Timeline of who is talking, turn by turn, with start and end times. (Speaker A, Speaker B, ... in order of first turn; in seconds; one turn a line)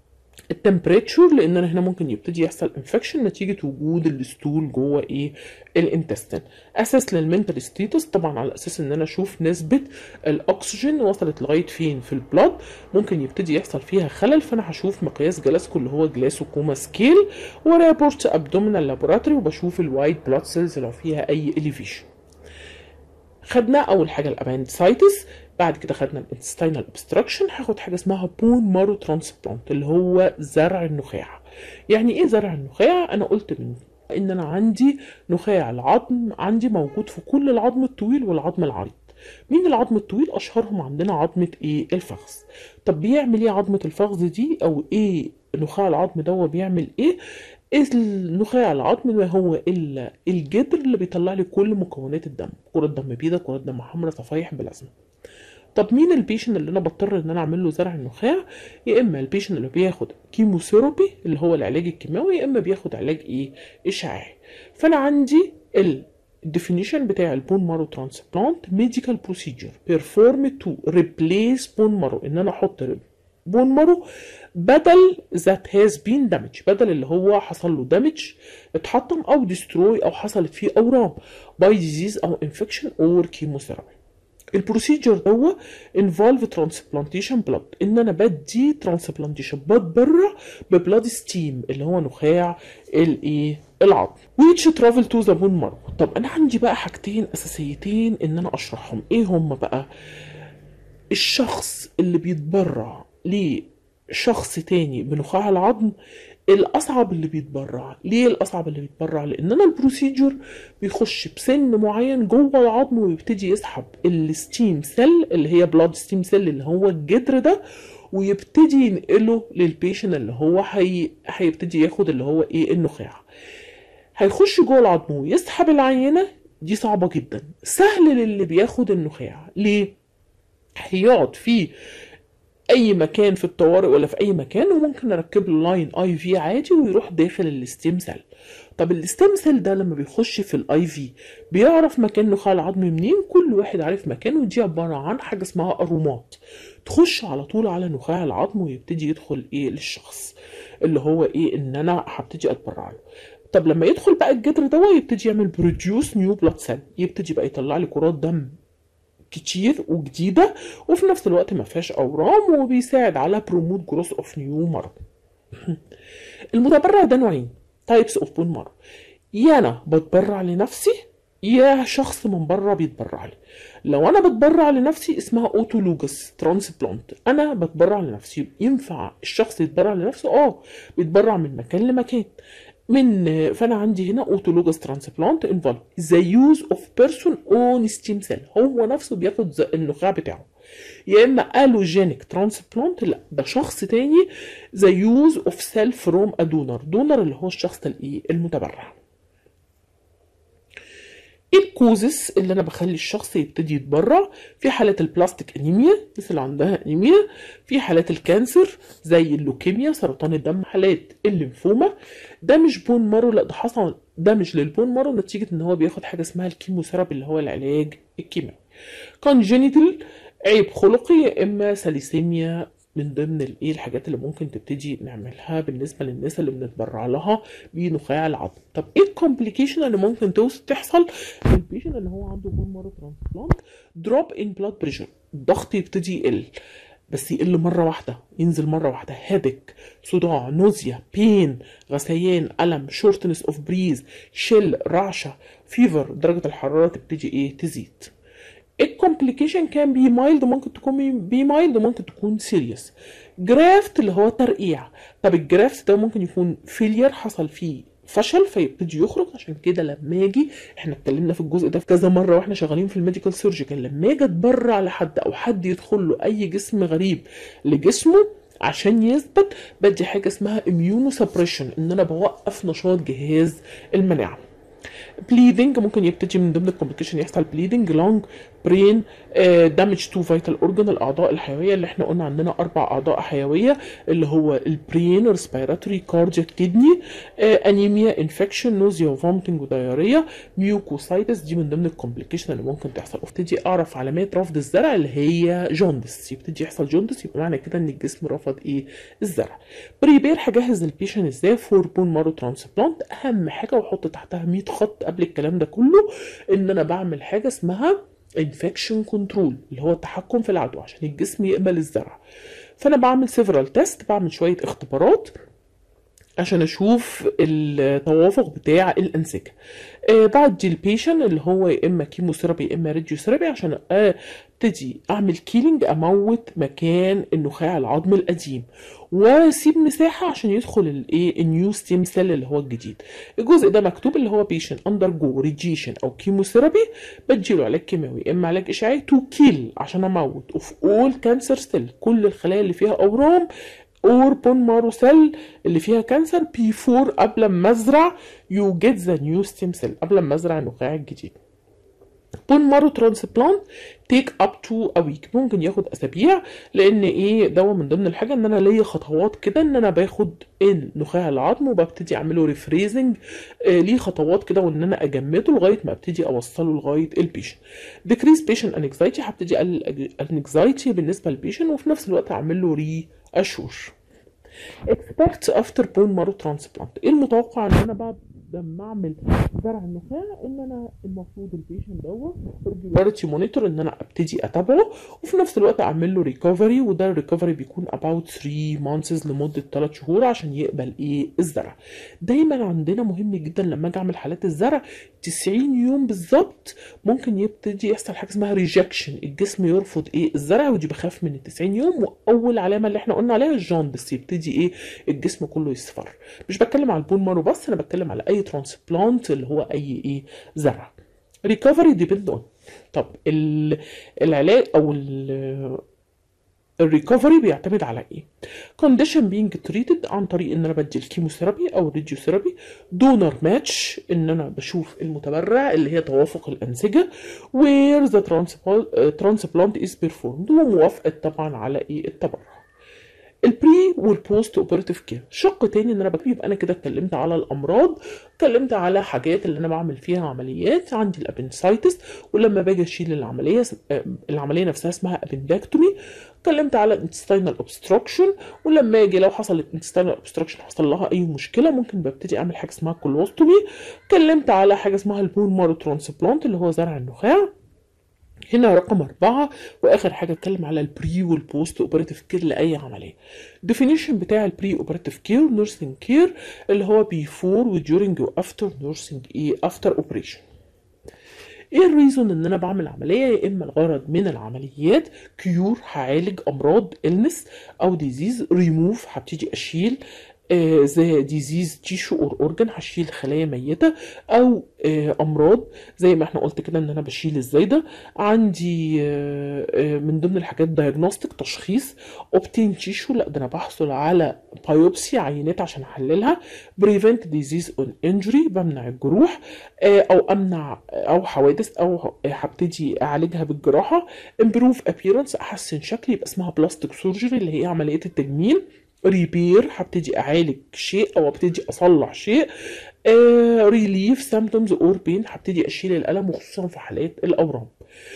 Speaker A: 0.5-22.1
Speaker A: 23.5-47.2
Speaker A: 47.7-54.9
Speaker A: 55.7-84.0
Speaker A: 84.5-99.9
Speaker A: 101.1-105.9
Speaker A: 106.5-117.6
Speaker A: 118.1-123.2
Speaker A: 124.2-129.9
Speaker A: 130.8-131.7
Speaker A: 132.7-138.2
Speaker A: 138.8-153.0
Speaker A: 153.5-158.6
Speaker A: 159.3-165.0
Speaker A: 166.5-168.7
Speaker A: 169.3-182.3
Speaker A: 182.9-190.5
Speaker A: 191.1-199.0
Speaker A: 201.5-211.9
Speaker A: 212.4-218.6
Speaker A: 219.2-236.5
Speaker A: 237.1-248.1
Speaker A: 248.8-274.4
Speaker A: 275.2-312.2
Speaker A: 312.8-315.4
Speaker A: 316.4-319.6
Speaker A: 320.1-343.5
Speaker A: 344.0-351.4
Speaker A: 352.5-373.9
Speaker A: 374.9-415.8
Speaker A: 416.8-418.3
Speaker A: 418.8-432.6
Speaker A: 433.4-457.5
Speaker A: 458.5-470.4
Speaker A: 471.7-512.5
Speaker A: 513.0-517.8